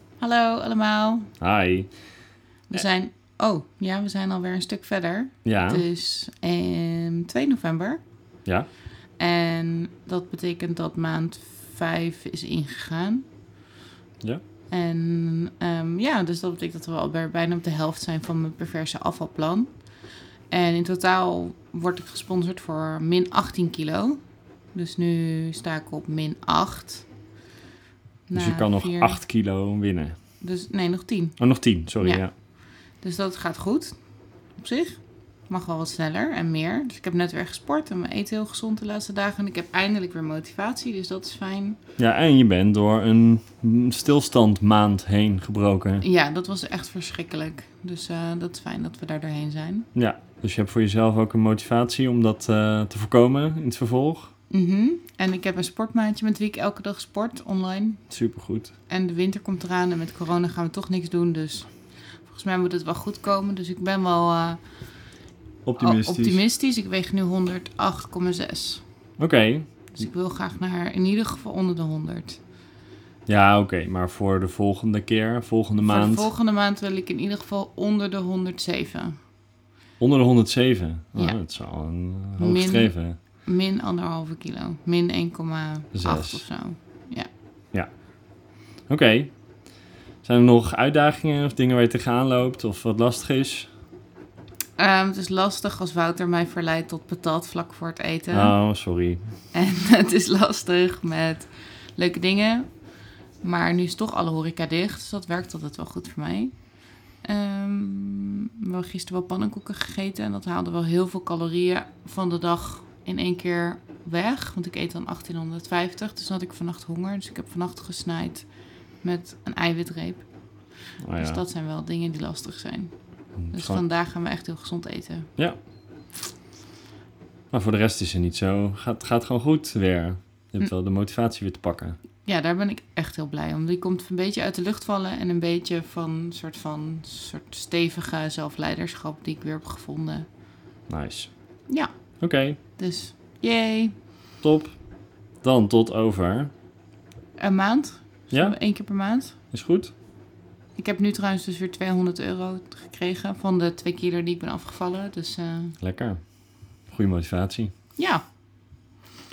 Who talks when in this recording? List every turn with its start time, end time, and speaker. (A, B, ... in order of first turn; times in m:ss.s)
0:00.2-0:01.3 A
0:01.4-0:02.0 B
0:02.7-0:08.0 A
0:05.4-0:05.8 B
0:09.2-0:13.2 A
0:14.7-0:19.8 A
0:20.5-0:24.2 A
0:24.7-0:27.1 A
0:28.3-0:29.2 A
0:28.3-0:30.1 B
0:30.4-0:32.3 A
0:31.4-0:32.3 B
0:32.9-0:33.9 A
0:34.5-0:41.8 A
0:42.0-0:46.0 B
0:46.0-0:49.9 A
0:49.9-0:54.3 B
0:54.5-0:58.1 A
0:58.1-0:58.7 B
0:58.9-1:01.7 A
1:02.2-1:04.6 A
1:05.6-1:06.4 B
1:05.8-1:08.8 A
1:09.2-1:09.7 B
1:09.9-1:12.4 A
1:13.3-1:16.3 B
1:15.8-1:19.2 A
1:20.0-1:23.2 B
1:21.1-1:21.4 A
1:22.4-1:27.3 A
1:25.9-1:26.4 B
1:28.9-1:29.3 B
1:30.2-1:33.7 B
1:34.8-1:38.6 A
1:38.3-1:39.2 B
1:39.5-1:42.7 A
1:43.4-1:58.5 A
1:59.0-2:00.3 A
2:01.0-2:01.4 B
2:01.2-2:05.3 A
2:03.4-2:03.8 B
2:07.5-2:12.0 B
2:12.2-2:20.3 A
2:20.9-2:21.3 B
2:22.2-2:22.6 B
2:22.8-2:23.9 A
2:24.4-2:24.8 B
2:25.4-2:26.5 B
2:27.4-2:29.4 A
2:28.3-2:28.6 B
2:29.5-2:29.9 B
2:30.8-2:35.8 A
2:35.8-2:36.2 B
2:36.9-2:37.7 B
2:38.0-2:38.2 A